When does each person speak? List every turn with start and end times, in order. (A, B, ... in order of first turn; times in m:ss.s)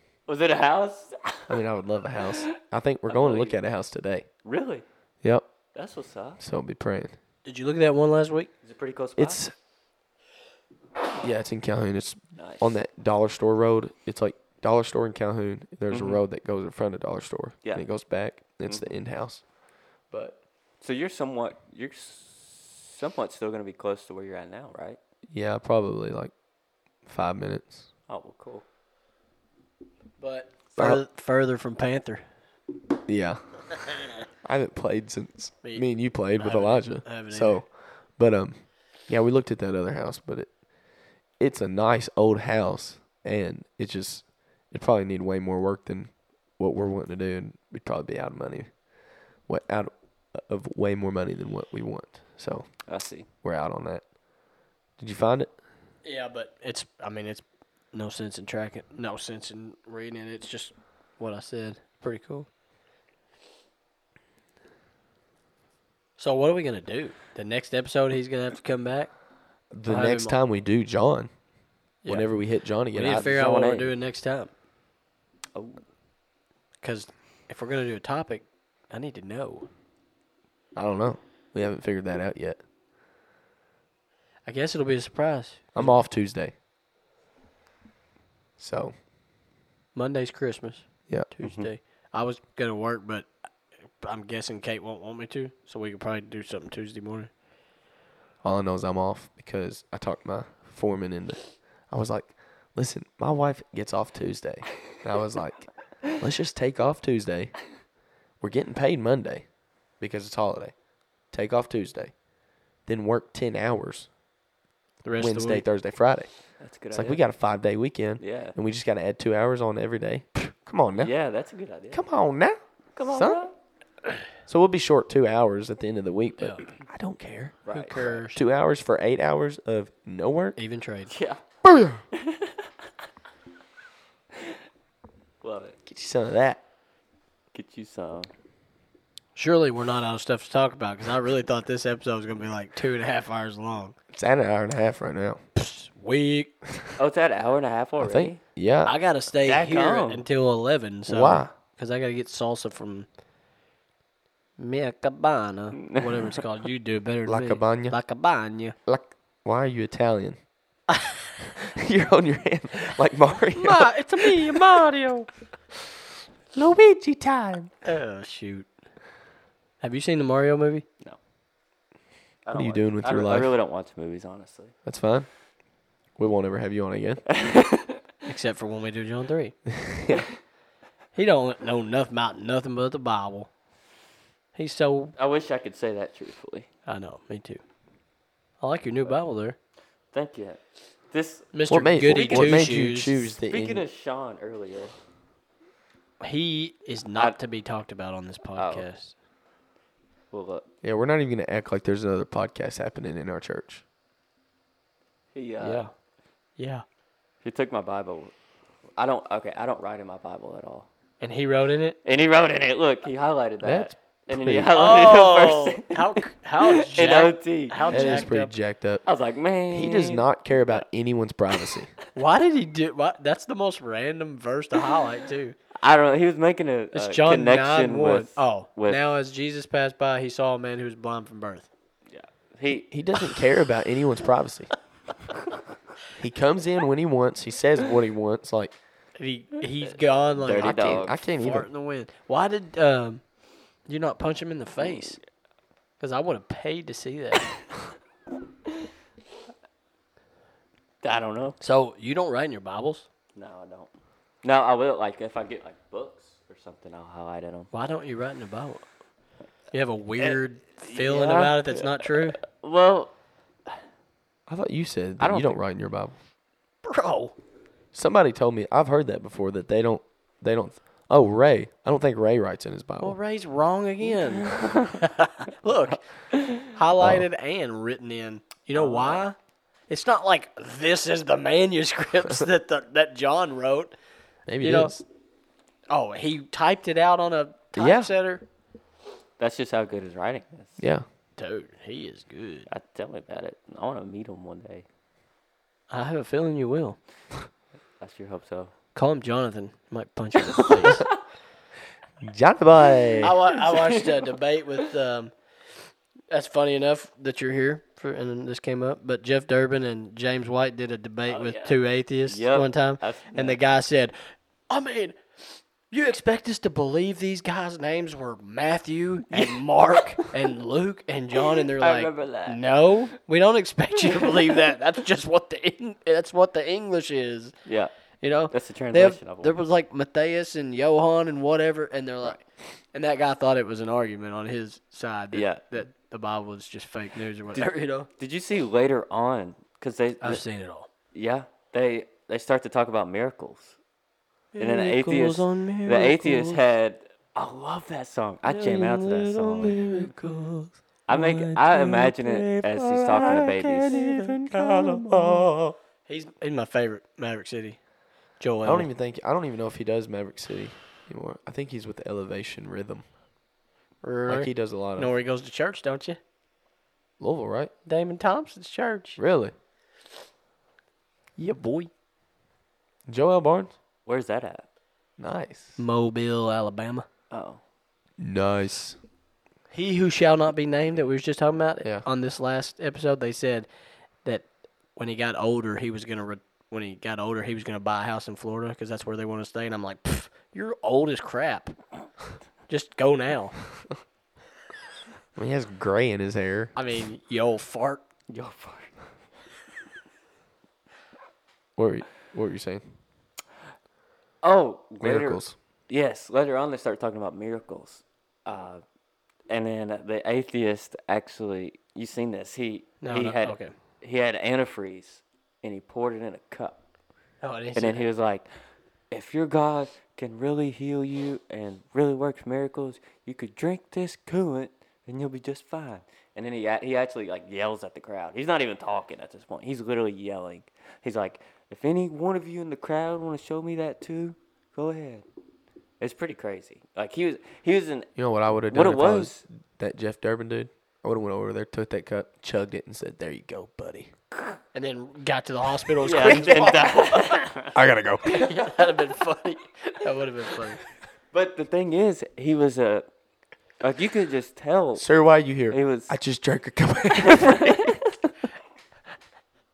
0:00.3-0:01.6 A
0:01.5-0:04.2 B
0:03.1-0:03.6 A
0:04.4-0:04.8 A
0:05.7-0:06.4 A
0:06.4-0:07.1 B
0:07.4-0:08.5 C
0:08.6-0:09.4 A
0:09.2-0:09.5 B
0:11.2-0:19.4 B
0:12.4-0:12.6 A
0:15.9-0:16.2 A
0:20.8-0:25.0 A
0:25.3-0:26.3 B
0:27.0-0:27.8 B
0:28.1-0:28.6 A
0:30.2-0:32.2 C
0:30.8-0:31.0 B
0:33.1-0:33.6 B
0:34.4-0:40.5 B
0:36.4-0:37.6 C
0:41.4-0:48.7 B
0:49.5-0:52.7 B
0:52.9-0:53.3 A
0:53.4-0:54.1 B
0:55.0-0:55.5 B
0:56.0-1:02.5 C
1:06.2-1:09.1 C
1:09.7-1:11.3 B
1:09.8-1:10.4 C
1:12.0-1:12.3 C
1:12.0-1:13.4 B
1:12.9-1:14.5 C
1:13.1-1:13.9 A
1:15.5-1:15.8 A
1:16.8-1:19.7 C
1:20.7-1:22.6 B
1:24.4-1:25.9 C
1:25.7-1:26.5 B
1:28.6-1:28.9 B
1:29.9-1:33.3 C
1:31.4-1:31.7 A
1:34.0-1:37.3 C
1:38.4-1:47.6 B
1:48.4-1:49.5 B
1:50.0-1:50.7 B
1:51.3-1:52.1 B
1:52.8-1:54.1 B
1:55.0-1:55.6 C
1:55.2-1:56.3 B
1:56.6-1:57.2 A
1:56.9-2:01.1 B
1:58.2-1:58.5 A
2:01.0-2:02.0 A
2:01.9-2:03.4 B
2:03.0-2:03.5 A
2:04.4-2:10.6 B
2:06.4-2:06.6 C
2:07.6-2:08.0 A
2:07.7-2:08.4 C
2:10.6-2:11.1 C
2:11.1-2:11.4 A
2:11.6-2:12.0 B
2:12.1-2:12.6 A
2:15.4-2:15.8 A
2:15.8-2:16.6 B
2:17.5-2:18.3 A
2:19.4-2:23.9 C
2:24.1-2:25.4 B
2:25.5-2:26.5 C
2:27.0-2:28.4 A
2:28.0-2:29.0 B
2:28.8-2:33.1 C
2:29.4-2:30.2 A
2:31.1-2:31.5 B
2:34.6-2:38.7 C
2:35.8-2:36.3 A
2:37.2-2:38.0 B
2:38.8-2:40.4 B
2:41.6-2:44.8 B
2:43.6-2:45.3 C
2:46.5-2:47.7 B
2:47.8-2:48.7 C
2:49.8-2:50.8 C
2:52.4-2:54.7 A
2:52.5-2:53.5 B
2:54.8-2:55.3 B
2:56.2-2:57.2 B
2:57.3-2:58.0 A
2:58.2-2:59.6 C
2:59.7-3:00.2 B
3:01.1-3:03.5 C
3:04.5-3:05.1 C
3:05.2-3:06.7 A
3:06.8-3:07.6 C
3:08.6-3:09.6 C
3:10.1-3:12.7 A
3:11.5-3:13.3 C
3:11.7-3:13.8 B
3:13.5-3:14.9 A
3:16.2-3:19.1 C
3:18.6-3:18.8 A
3:20.3-3:20.6 A
3:20.8-3:23.8 B
3:25.3-3:25.8 A
3:25.6-3:25.9 C
3:26.6-3:26.8 C
3:27.4-3:28.3 A
3:29.0-3:30.9 A
3:31.2-3:32.0 C
3:32.0-3:38.2 A
3:33.6-3:34.8 B
3:34.7-3:38.5 C
3:37.9-3:39.0 B
3:39.0-3:40.8 A
3:39.7-3:41.9 B
3:42.1-3:45.6 C
3:45.8-3:49.0 A
3:46.9-3:51.7 C
3:52.1-3:52.9 A
3:52.9-3:54.7 B
3:56.2-3:58.7 B
3:59.2-4:03.2 C
4:00.4-4:01.2 A
4:00.6-4:01.7 B
4:03.9-4:05.2 C
4:06.0-4:07.5 C
4:11.0-4:11.6 A
4:11.6-4:13.0 C
4:13.3-4:13.9 A
4:14.4-4:17.7 A
4:17.7-4:18.8 C
4:19.7-4:22.4 C
4:20.2-4:23.1 A
4:24.5-4:26.1 B
4:25.2-4:25.6 A
4:26.8-4:27.3 C
4:27.9-4:33.2 B
4:33.0-4:36.0 C
4:34.3-4:35.0 A
4:36.3-4:36.7 A
4:36.7-4:39.3 C
4:37.0-4:37.2 B
4:38.7-4:39.2 A
4:39.9-4:43.9 C
4:44.5-4:45.0 B
4:44.6-4:44.9 C
4:45.9-4:48.4 C
4:47.8-4:48.1 B
4:49.4-4:50.8 A
4:50.8-4:51.0 B
4:51.4-4:52.7 C
4:52.7-4:54.8 A
4:55.9-4:57.0 C
4:58.0-4:58.7 A
4:58.9-5:01.0 C
5:00.6-5:01.2 A
5:02.2-5:03.3 B
5:03.0-5:04.2 A
5:03.2-5:05.3 C
5:06.3-5:14.2 C
5:11.3-5:13.6 A
5:14.7-5:15.2 C
5:15.9-5:27.5 C
5:19.3-5:19.6 A
5:21.5-5:22.9 A
5:24.0-5:24.6 A
5:27.6-5:27.9 A
5:28.2-5:32.4 C
5:28.5-5:29.6 A
5:32.9-5:38.1 C
5:35.3-5:35.6 A
5:37.5-5:40.4 A
5:40.2-5:40.9 C
5:41.1-5:43.8 A
5:44.5-5:46.6 C
5:44.6-5:49.9 A
5:48.5-5:50.5 C
5:49.6-5:55.7 B
5:51.1-5:54.1 A
5:53.2-5:55.5 C
5:56.0-5:57.8 C
5:58.4-5:58.9 C
5:58.6-6:03.0 B
6:04.0-6:06.2 C
6:04.3-6:05.1 B
6:07.2-6:07.7 B
6:07.8-6:09.2 C
6:09.2-6:09.5 B
6:11.4-6:11.9 C
6:13.1-6:13.7 B
6:14.0-6:14.6 A
6:15.2-6:15.8 B
6:15.8-6:17.0 C
6:17.3-6:17.6 A
6:18.2-6:19.0 B
6:19.7-6:23.7 C
6:24.2-6:31.8 C
6:32.7-6:33.6 C
6:35.4-6:36.7 B
6:36.8-6:38.0 C
6:38.3-6:38.9 A
6:41.8-6:42.8 B
6:44.4-6:48.8 A
6:45.0-6:45.5 B
6:49.5-6:56.8 A
6:53.0-6:53.7 C
6:57.4-6:58.0 C
6:57.7-6:58.5 A
6:59.1-7:15.2 A
7:16.0-7:19.4 A
7:18.2-7:24.1 B
7:24.7-7:27.4 C
7:26.0-7:27.7 A
7:26.1-7:27.2 B
7:27.7-7:28.4 B
7:28.3-7:30.8 C
7:31.3-7:33.1 A
7:33.8-7:35.1 A
7:35.0-7:37.8 B
7:35.7-7:36.2 A
7:37.2-7:38.1 A